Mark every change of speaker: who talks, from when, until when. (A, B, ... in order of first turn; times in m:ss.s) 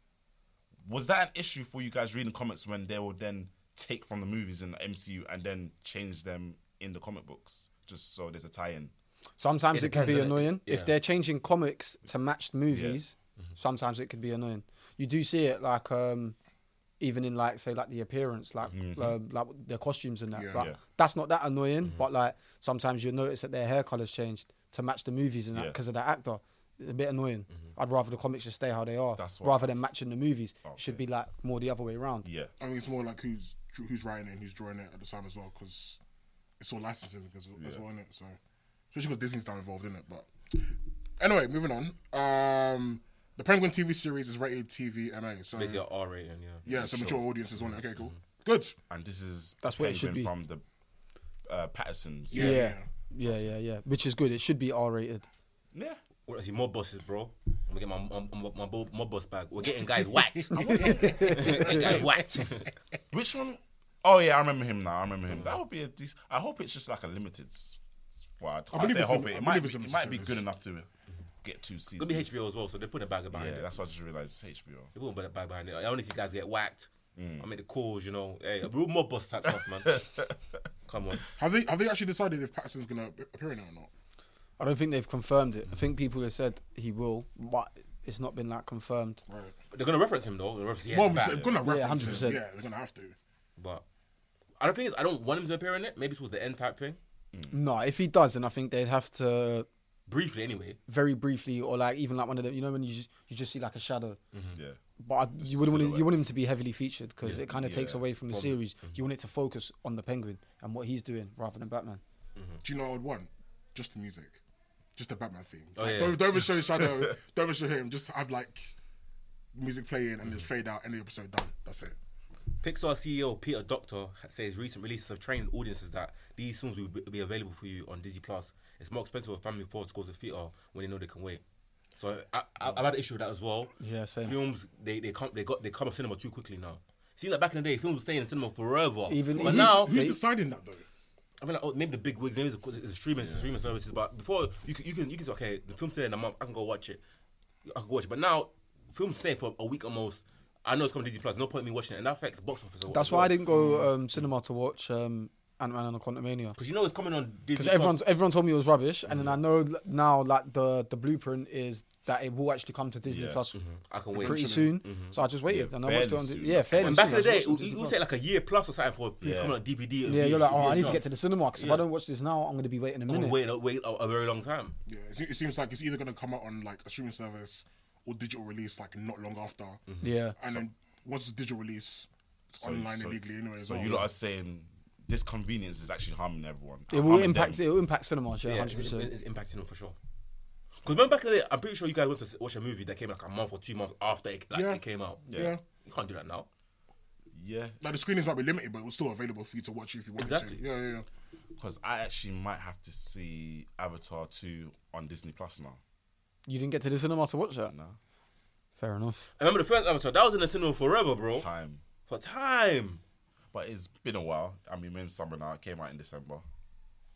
0:00.8-0:08.9 A
0:09.4-0:16.4 B
0:09.7-0:11.0 C
0:12.7-0:13.0 A
0:17.0-0:32.3 B
0:18.7-0:19.2 A
0:20.4-0:20.7 D
0:29.2-0:29.7 A
0:30.6-0:31.0 A
0:32.2-0:32.5 A
0:32.6-0:36.0 D
0:36.6-0:38.4 D
0:38.9-0:45.8 D
0:45.5-0:46.6 C
0:46.6-0:47.3 A
0:46.7-0:48.8 D
0:47.6-0:48.1 C
0:48.9-0:50.6 A
0:49.6-0:50.3 B
0:51.5-0:52.6 A
0:52.3-0:52.8 D
0:52.3-0:55.3 B
0:55.7-0:56.0 A
0:56.3-1:02.7 C
1:00.5-1:02.5 D
1:00.6-1:01.8 B
1:03.1-1:07.8 A
1:05.3-1:05.6 C
1:08.4-1:10.9 A
1:08.7-1:10.4 D
1:11.4-1:12.4 A
1:12.0-1:13.7 C
1:13.3-1:14.9 A
1:15.0-1:20.0 C
1:17.2-1:17.5 A
1:19.9-1:20.4 A
1:20.9-1:21.2 C
1:21.4-1:23.9 D
1:24.6-1:29.2 B
1:29.3-1:29.6 D
1:29.7-1:32.3 C
1:30.9-1:33.2 D
1:31.6-1:32.4 B
1:33.6-1:33.8 C
1:34.6-1:37.0 C
1:37.5-1:39.7 B
1:40.1-1:40.8 C
1:40.9-1:44.2 B
1:44.3-1:44.6 C
1:45.0-1:52.0 B
1:45.4-1:46.1 A
1:47.3-1:48.0 A
1:48.3-1:48.9 C
1:52.4-1:52.6 C
1:52.6-1:54.4 D
1:55.0-1:58.8 D
1:55.8-1:56.4 C
1:59.5-2:02.0 D
2:02.6-2:11.4 C
2:12.0-2:13.7 C
2:13.8-2:14.4 B
2:14.2-2:20.0 C
2:19.1-2:20.2 B
2:19.4-2:20.8 D
2:21.4-2:27.0 C
2:27.6-2:33.4 C
2:32.9-2:36.6 B
2:36.6-2:38.0 C
2:37.6-2:43.6 B
2:39.1-2:39.4 C
2:43.1-2:43.4 A
2:43.5-2:45.2 C
2:44.1-2:44.8 D
2:44.2-2:48.0 B
2:45.5-2:47.1 A
2:46.8-2:51.0 C
2:49.2-2:49.6 A
2:50.1-2:53.4 B
2:51.6-2:51.8 C
2:53.1-2:54.8 C
2:54.9-2:59.8 D
3:00.0-3:00.4 B
3:00.4-3:04.0 D
3:02.6-3:07.6 A
3:06.9-3:09.1 B
3:08.4-3:10.0 C
3:10.8-3:16.5 C
3:14.5-3:15.6 D
3:15.3-3:15.6 A
3:17.3-3:17.8 A
3:17.8-3:21.1 D
3:20.2-3:20.6 C
3:21.6-3:25.8 A
3:26.5-3:27.7 B
3:27.7-3:28.0 A
3:28.8-3:29.3 B
3:29.4-3:31.5 C
3:31.3-3:31.8 A
3:32.1-3:33.0 C
3:33.5-3:36.4 A